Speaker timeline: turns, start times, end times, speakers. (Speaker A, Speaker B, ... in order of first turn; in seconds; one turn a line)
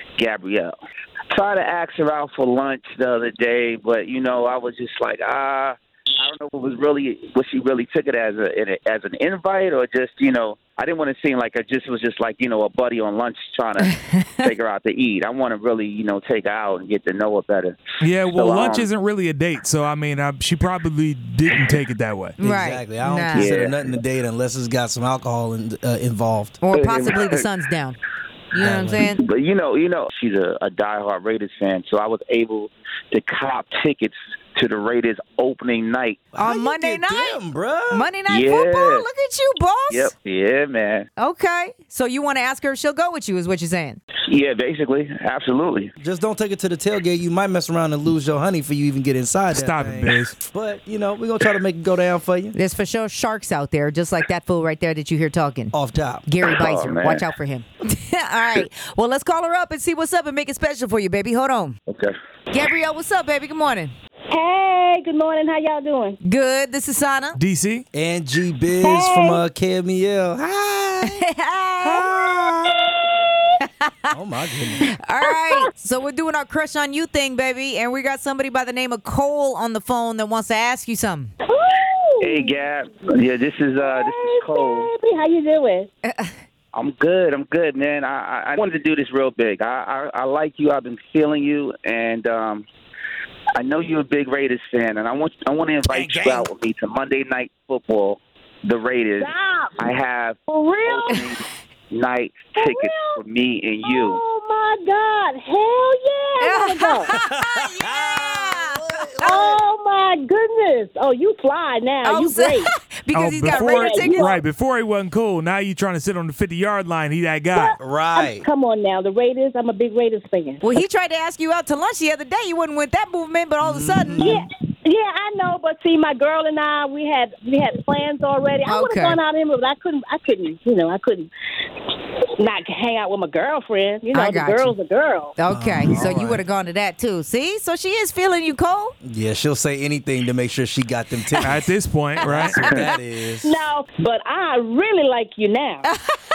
Speaker A: 0.2-0.7
Speaker A: 1.3-18.9
Speaker B: 18.0-22.4
Speaker C: 22.4-26.6
Speaker D: 22.4-23.5
Speaker A: 23.3-23.8
Speaker D: 26.6-28.0
Speaker A: 26.7-27.4
Speaker D: 28.5-29.2
Speaker C: 28.6-29.1
Speaker A: 29.0-36.2
Speaker C: 36.3-38.1
Speaker D: 36.4-40.1
Speaker A: 38.3-39.1
Speaker A: 39.9-41.1
Speaker D: 41.2-44.0
Speaker A: 44.3-45.9
Speaker C: 46.0-52.6
Speaker B: 49.5-50.4
Speaker D: 52.5-55.7
Speaker C: 55.7-56.3
Speaker D: 56.3-61.8
Speaker A: 56.6-57.2
Speaker A: 61.9-62.1
Speaker D: 62.5-63.9
Speaker E: 64.3-66.2
Speaker D: 66.2-67.4
Speaker B: 67.3-67.8
Speaker C: 67.9-71.2
Speaker E: 68.8-69.4
Speaker D: 71.1-72.0
Speaker C: 71.9-72.8
Speaker E: 72.7-73.0
Speaker D: 73.8-74.1
Speaker C: 74.1-74.9
Speaker D: 74.9-81.3
Speaker E: 81.5-82.6
Speaker A: 82.2-84.9
Speaker E: 83.8-85.9
Speaker D: 86.0-86.3
Speaker A: 86.7-92.7
Speaker A: 93.5-104.2
Speaker B: 95.9-96.5
Speaker E: 99.2-99.9
Speaker E: 100.5-101.2
Speaker E: 102.6-103.2
Speaker E: 103.8-107.1
Speaker D: 106.4-109.4
Speaker C: 107.1-109.6
Speaker E: 109.2-112.7
Speaker D: 112.0-114.4
Speaker B: 113.1-117.7
Speaker E: 113.5-114.4
Speaker E: 117.5-120.6
Speaker C: 117.8-118.5
Speaker D: 120.6-124.5
Speaker C: 123.6-124.4
Speaker E: 124.2-131.3
Speaker D: 128.7-129.2
Speaker E: 131.9-135.3
Speaker D: 134.1-134.8
Speaker D: 135.4-138.9
Speaker C: 135.5-136.4
Speaker C: 139.0-141.7
Speaker B: 141.4-142.6
Speaker C: 142.2-143.6
Speaker E: 143.4-145.9
Speaker D: 145.9-146.2